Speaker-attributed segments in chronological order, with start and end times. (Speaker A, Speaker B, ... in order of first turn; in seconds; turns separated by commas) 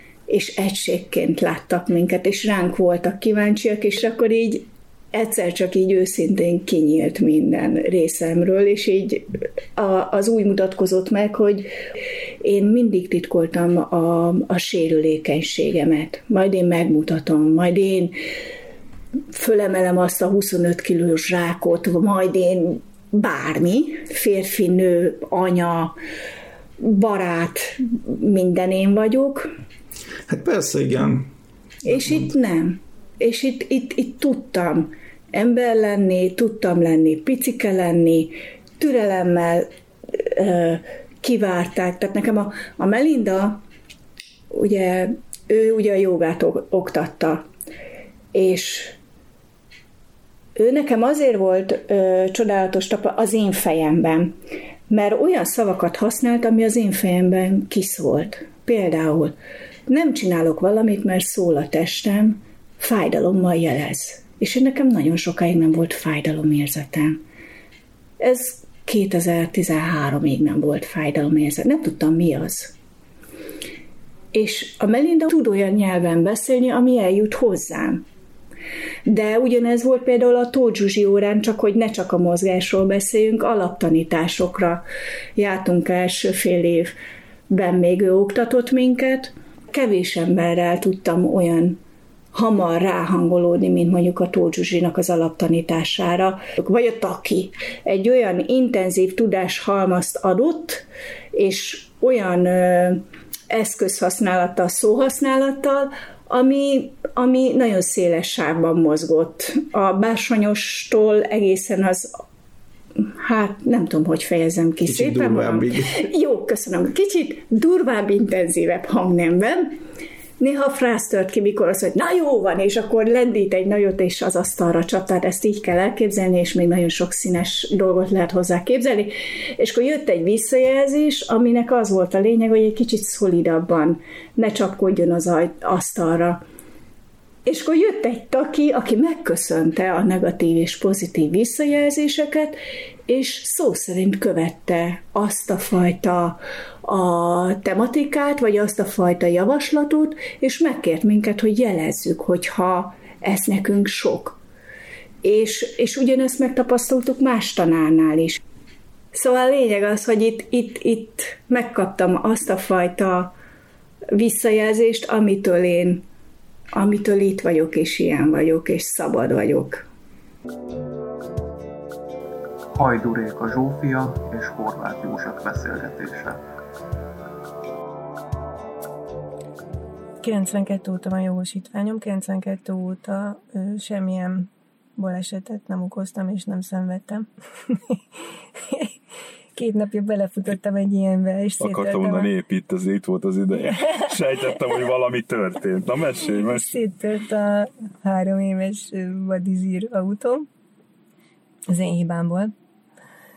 Speaker A: 0.3-11.7, Speaker A: 12.4-18.2, Speaker A: 19.3-26.0, Speaker A: 26.8-29.5, Speaker B: 30.3-31.3, Speaker A: 31.9-43.6, Speaker B: 31.9-32.3, Speaker A: 44.5-47.5, Speaker A: 48.3-49.0, Speaker A: 50.6-54.3, Speaker A: 54.9-59.4, Speaker A: 59.9-67.2, Speaker A: 68.2-72.7, Speaker A: 74.3-78.1, Speaker A: 79.1-87.0, Speaker A: 87.5-91.8, Speaker A: 92.3-112.2, Speaker A: 113.0-119.8, Speaker B: 114.8-116.0, Speaker A: 120.4-136.4, Speaker A: 137.5-154.4, Speaker A: 155.2-158.4, Speaker A: 159.1-163.3, Speaker A: 164.1-166.1, Speaker A: 166.7-169.9, Speaker C: 172.8-176.4, Speaker D: 180.2-187.8, Speaker D: 189.6-192.3, Speaker E: 191.6-196.8, Speaker D: 193.6-194.1, Speaker D: 196.2-200.5, Speaker D: 201.7-202.5